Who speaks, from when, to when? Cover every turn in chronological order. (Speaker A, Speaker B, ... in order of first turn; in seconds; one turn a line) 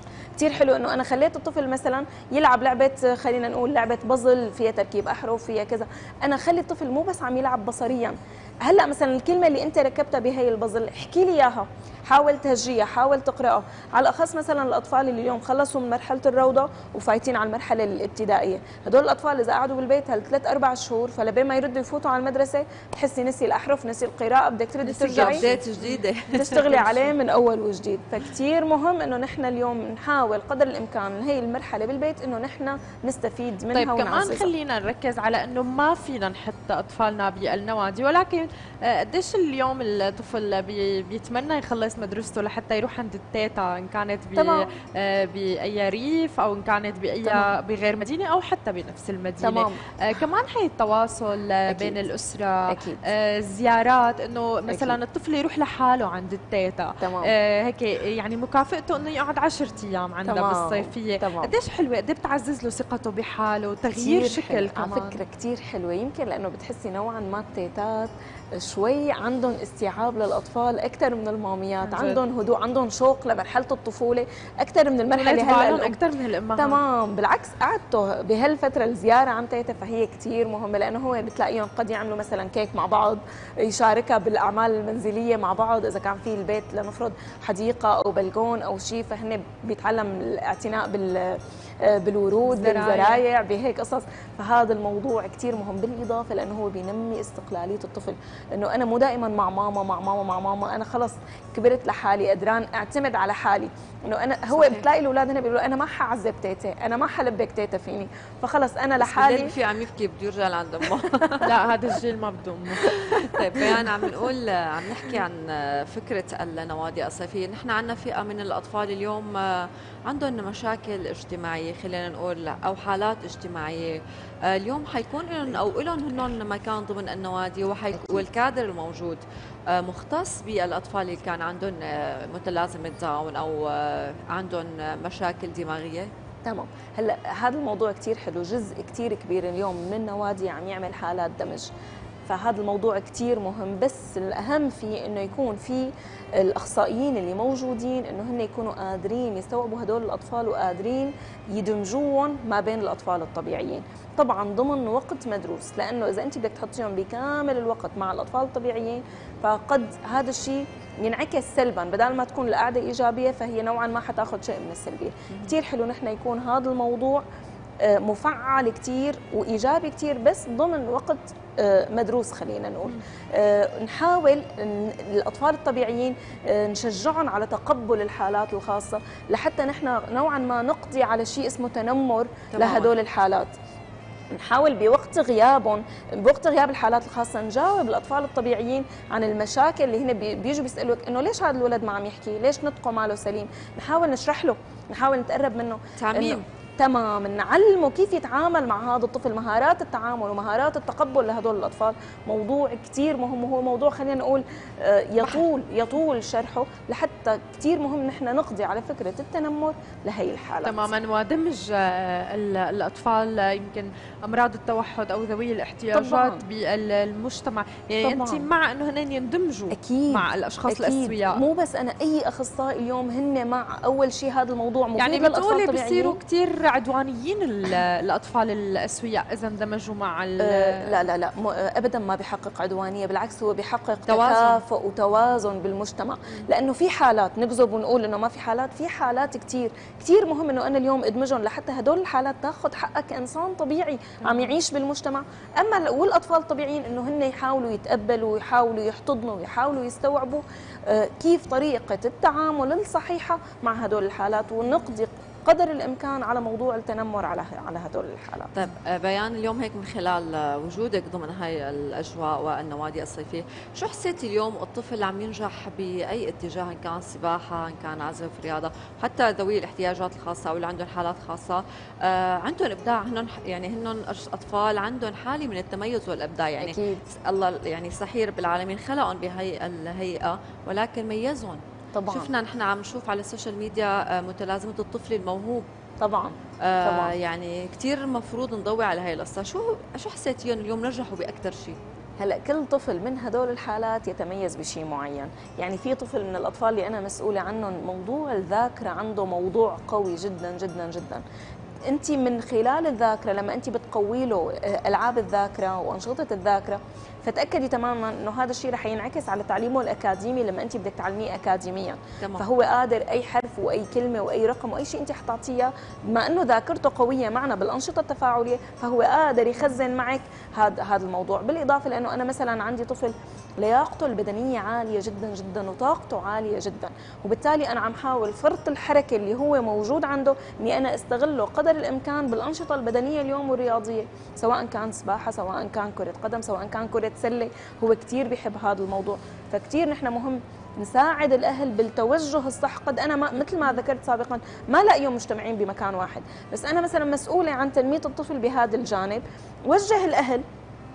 Speaker A: 0.4-25.5
Speaker B: 24.9-27.1
Speaker C: 25.0-25.4
Speaker A: 26.3-34.5
Speaker C: 33.7-65.2
Speaker A: 44.4-44.7
Speaker A: 47.2-47.5
Speaker A: 49.4-49.8
Speaker A: 51.7-52.0
Speaker A: 52.7-53.0
Speaker A: 54.7-55.0
Speaker A: 57.0-57.3
Speaker A: 60.2-61.5
Speaker A: 64.0-76.0
Speaker C: 71.8-72.2
Speaker C: 75.1-76.8
Speaker A: 76.5-109.5
Speaker C: 92.5-93.2
Speaker B: 104.5-104.8
Speaker B: 109.0-111.5
Speaker C: 111.4-113.0
Speaker B: 112.8-124.0
Speaker B: 124.5-129.2
Speaker B: 129.7-136.1
Speaker A: 136.4-141.7
Speaker A: 142.3-167.2
Speaker A: 167.8-183.5
Speaker B: 182.5-182.9
Speaker A: 184.3-210.9
Speaker B: 196.0-196.4
Speaker C: 210.6-221.4
Speaker A: 215.9-216.4
Speaker A: 218.0-218.5
Speaker A: 219.7-226.2
Speaker C: 225.0-230.9
Speaker A: 230.4-258.5
Speaker B: 234.1-234.6
Speaker B: 258.5-285.6
Speaker A: 276.6-277.0
Speaker A: 281.9-282.3
Speaker A: 286.0-287.1
Speaker B: 286.6-291.8
Speaker A: 292.2-301.2
Speaker A: 301.9-350.4
Speaker B: 312.2-312.5